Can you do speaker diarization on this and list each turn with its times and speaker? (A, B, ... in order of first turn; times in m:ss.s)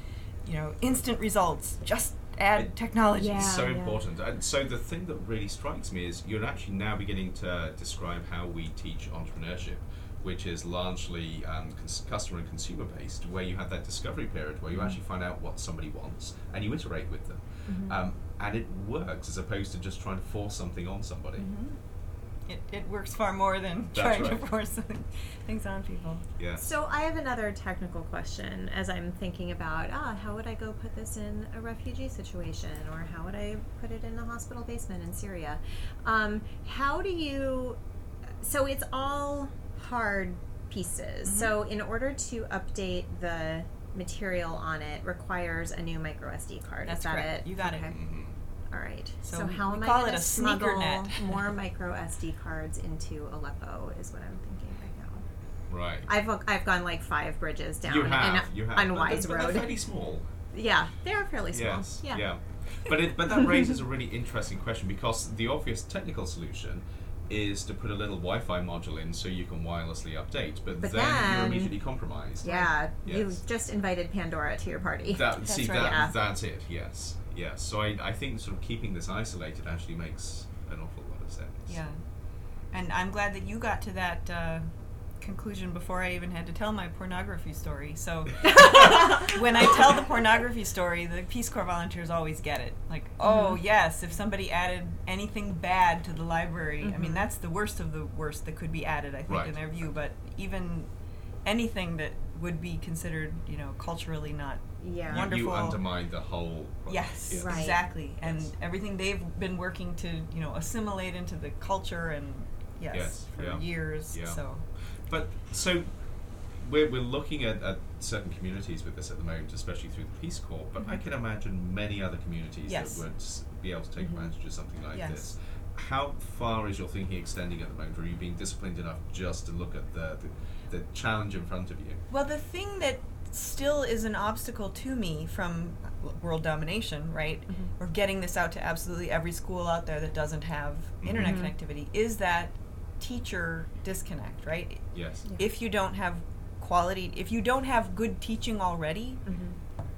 0:00.4-0:03.6 A
0:02.5-0:21.5 B
0:03.2-0:04.0 C
0:14.7-0:15.0 C
0:17.7-0:18.0 C
0:21.4-0:21.8 A
0:22.5-0:26.3 A
0:23.9-0:24.5 B
0:26.4-0:26.7 B
0:26.6-0:37.8 C
0:38.4-0:48.0 C
0:41.2-0:41.6 A
0:46.8-0:48.0 A
0:47.9-0:48.4 B
0:48.7-0:55.3 C
0:49.2-0:51.5 A
0:55.7-0:56.1 B
0:56.1-0:59.7 C
0:57.8-1:00.3 B
1:00.5-1:02.2 C
1:01.5-1:13.4 B
1:03.3-1:03.7 C
1:10.8-1:11.8 C
1:12.4-1:16.2 C
1:15.1-1:21.8 B
1:15.4-1:16.0 A
1:21.7-1:22.0 A
1:22.7-1:24.6 A
1:25.2-1:40.9 A
1:28.7-1:29.4 C
1:33.2-1:33.6 C
1:36.8-1:37.3 C
1:39.3-1:39.6 B
1:41.4-1:45.8 A
1:44.8-1:45.3 C
1:45.1-1:48.5 B
1:46.9-1:54.6 A
1:47.3-1:47.8 C
1:52.9-1:54.4 B
1:55.1-1:55.9 B
1:56.6-2:12.0 B
2:02.7-2:03.0 A
2:04.0-2:04.3 C
2:04.9-2:05.3 A
2:12.1-2:24.8 A
2:21.0-2:21.4 B
2:21.2-2:21.5 C
2:24.9-2:25.3 B
2:25.4-2:29.2 A
2:29.3-2:29.6 C